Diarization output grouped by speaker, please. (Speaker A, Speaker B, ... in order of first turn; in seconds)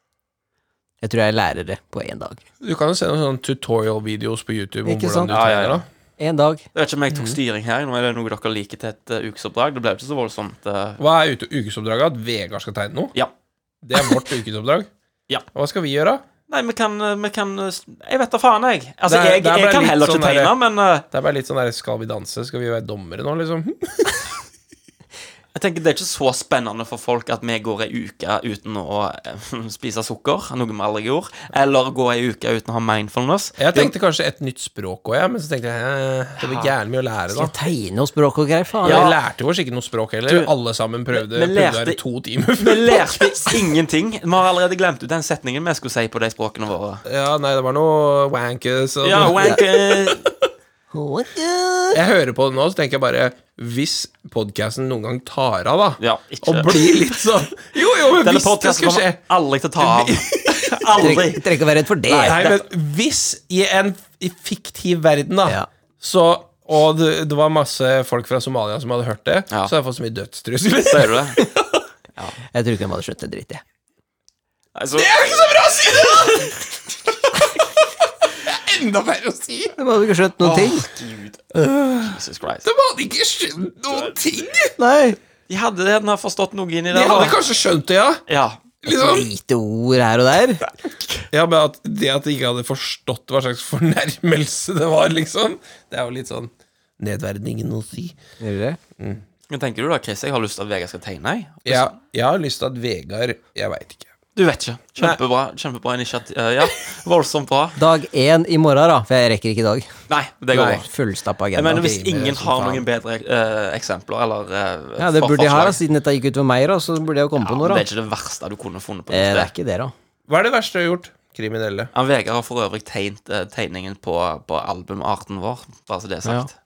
Speaker A: 1.0-2.4, 4.8-5.3, 6.2-6.6, 37.3-39.1, 49.3-49.6, 50.9-52.0, 61.0-62.4, 72.5-73.6, 79.8-80.9, 84.8-85.2, 88.8-90.7, 98.4-98.8, 107.8-109.9, 110.5-112.8, 115.0-117.8, 119.1-119.9
Speaker B: 2.6-5.8, 11.0-13.1, 13.8-14.9, 15.5-16.2, 19.1-20.5, 21.1-24.4, 33.6-37.5, 38.8-43.6, 47.0-50.3, 51.9-59.2, 59.8-61.2, 62.1-71.8, 75.0-79.7, 81.5-84.7, 86.9-88.2, 88.8-89.3, 91.3-98.2, 101.7-104.1, 120.3-121.9
Speaker C: 5.3-5.8, 6.7-11.0, 16.5-21.1, 25.5-33.9, 36.4-36.7, 38.8-39.2, 41.1-42.0, 42.6-47.0, 49.0-50.3, 56.0-57.2, 58.1-61.5, 62.2-62.6, 70.8-71.4, 74.7-76.4, 80.4-81.5, 82.0-82.7, 85.5-87.4, 88.3-88.6, 99.5-101.9, 104.3-107.8, 110.1-110.8, 111.5-115.8, 117.4-119.5, 121.9-126.5